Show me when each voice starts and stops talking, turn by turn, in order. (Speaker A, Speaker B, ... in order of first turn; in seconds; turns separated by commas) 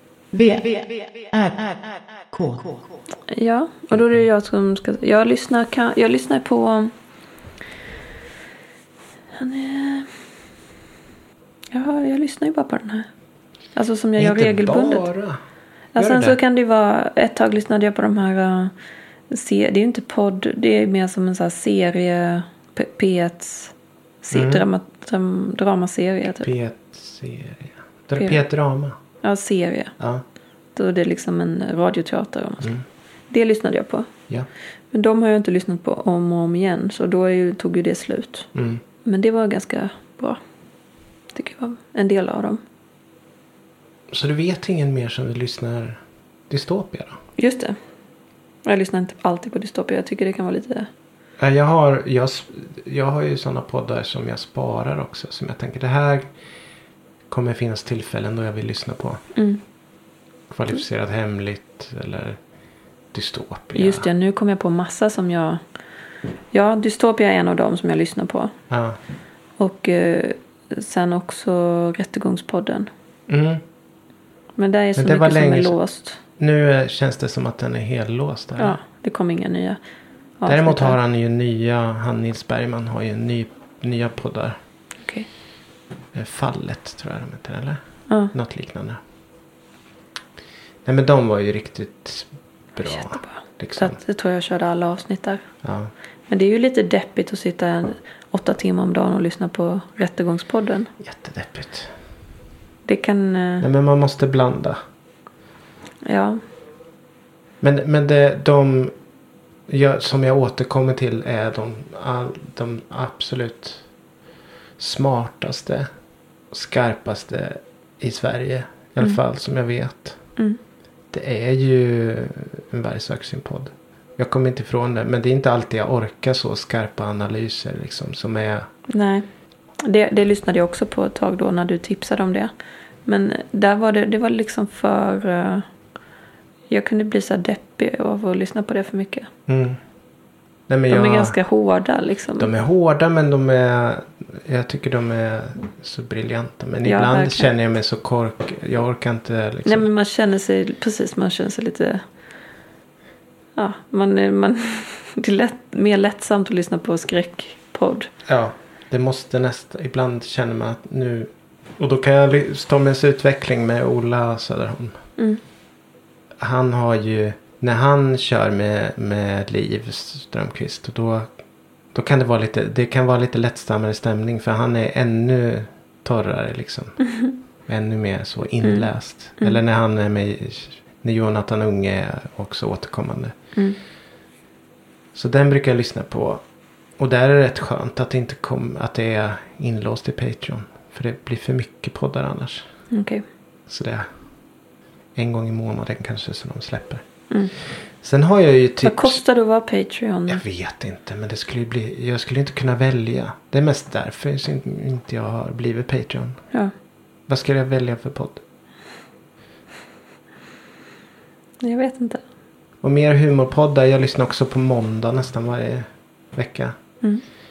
Speaker A: 0.3-2.8, Speaker B: 3.3-6.9, Speaker C: 3.9-4.2, Speaker B: 9.4-10.1, Speaker B: 11.7-13.1, Speaker B: 13.7-15.1, Speaker C: 14.2-15.4, Speaker C: 15.9-16.4, Speaker B: 15.9-18.7, Speaker B: 19.3-26.5, Speaker C: 24.3-24.6, Speaker C: 26.4-28.9, Speaker B: 29.2-29.9, Speaker B: 30.8-32.7, Speaker B: 33.3-34.1, Speaker B: 34.9-38.5, Speaker C: 38.5-38.8, Speaker B: 39.0-40.4, Speaker B: 41.3-42.6, Speaker C: 44.1-47.2, Speaker B: 47.4-47.8, Speaker B: 48.6-50.9, Speaker C: 51.4-56.3, Speaker C: 57.3-59.2, Speaker B: 59.3-59.6, Speaker C: 60.5-62.4, Speaker C: 63.1-64.0, Speaker B: 63.8-65.6, Speaker B: 66.5-68.5, Speaker C: 68.7-69.0, Speaker B: 69.6-72.9, Speaker C: 73.3-73.6, Speaker B: 74.6-76.2, Speaker C: 75.0-75.8, Speaker C: 76.4-78.8, Speaker B: 78.6-79.8, Speaker B: 80.4-81.0, Speaker C: 80.5-84.6, Speaker C: 86.1-87.8, Speaker C: 88.3-89.0, Speaker C: 90.8-94.0, Speaker B: 92.8-95.4, Speaker C: 95.6-95.9, Speaker B: 96.3-100.9, Speaker C: 101.0-101.9, Speaker B: 102.8-103.7, Speaker C: 103.6-104.8, Speaker B: 106.0-106.4, Speaker C: 107.6-108.9, Speaker C: 109.7-113.8, Speaker C: 114.8-115.9, Speaker C: 116.5-120.2, Speaker C: 121.1-128.7, Speaker B: 128.9-129.2, Speaker B: 129.8-132.5, Speaker B: 133.1-135.6, Speaker B: 136.7-139.3, Speaker C: 139.5-139.8, Speaker C: 140.7-141.4, Speaker B: 140.9-142.5, Speaker C: 142.4-149.9, Speaker B: 146.8-147.5, Speaker B: 149.6-152.0, Speaker B: 153.6-158.1, Speaker C: 158.2-164.9, Speaker C: 166.4-171.3, Speaker C: 171.9-177.0, Speaker C: 177.7-183.3, Speaker B: 178.6-179.6, Speaker C: 185.1-186.4, Speaker C: 187.0-192.7, Speaker B: 192.9-193.2, Speaker C: 193.7-194.1, Speaker C: 195.1-197.0, Speaker C: 198.0-199.2, Speaker B: 198.8-200.4, Speaker C: 200.3-206.4, Speaker C: 207.3-208.4, Speaker B: 211.6-212.2, Speaker C: 212.8-216.7